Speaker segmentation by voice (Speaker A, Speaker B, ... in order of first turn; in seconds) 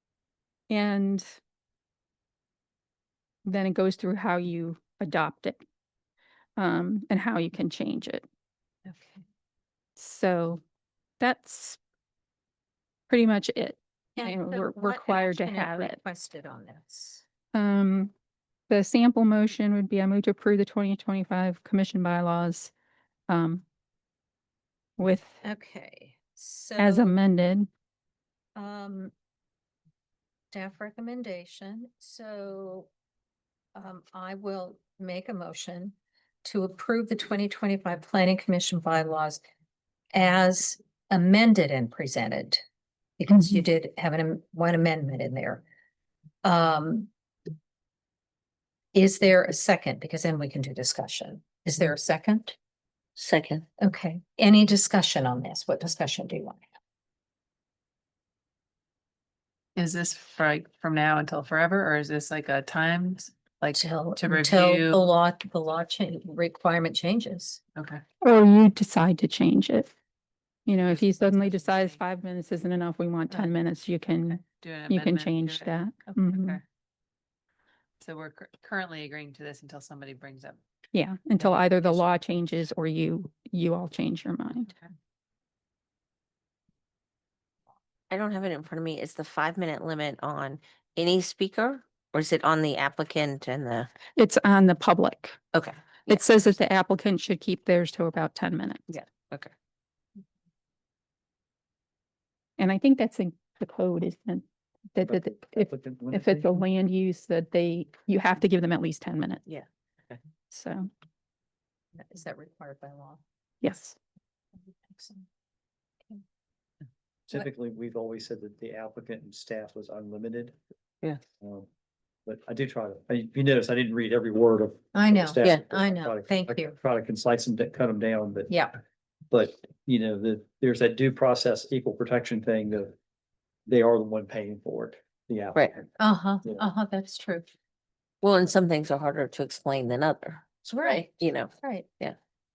Speaker A: 0.7-1.4, 3.4-5.6, 6.6-8.2, 10.0-10.6, 11.2-11.8, 13.1-16.0, 17.5-18.1, 18.7-22.7, 23.3-23.6, 25.0-25.4, 26.8-27.7, 68.2-69.9, 70.7-76.6, 80.9-84.7, 94.2-95.4, 96.1-98.8, 102.6-109.4, 110.5-110.9, 113.6-114.0
Speaker B: 8.8-9.2, 14.2-17.2, 25.4-27.2, 28.6-29.1, 30.5-32.9, 33.7-39.4, 40.1-42.6, 43.2-45.6, 46.4-47.1, 48.9-52.5, 53.8-56.6, 63.7-67.6, 111.9-113.2, 114.5-115.2, 124.9-126.7, 128.5-128.8, 136.0-137.4, 140.6-141.9
Speaker C: 53.2-53.6, 88.1-93.9, 98.9-99.5, 109.5-110.1, 138.2-142.2
Speaker D: 59.8-65.0, 67.8-68.0, 70.8-72.0, 73.3-73.6, 74.3-76.6, 78.0-80.6, 81.4-82.2
Speaker E: 105.0-106.6, 117.3-120.5, 121.4-121.7, 122.2-128.6, 129.3-132.9, 133.7-135.8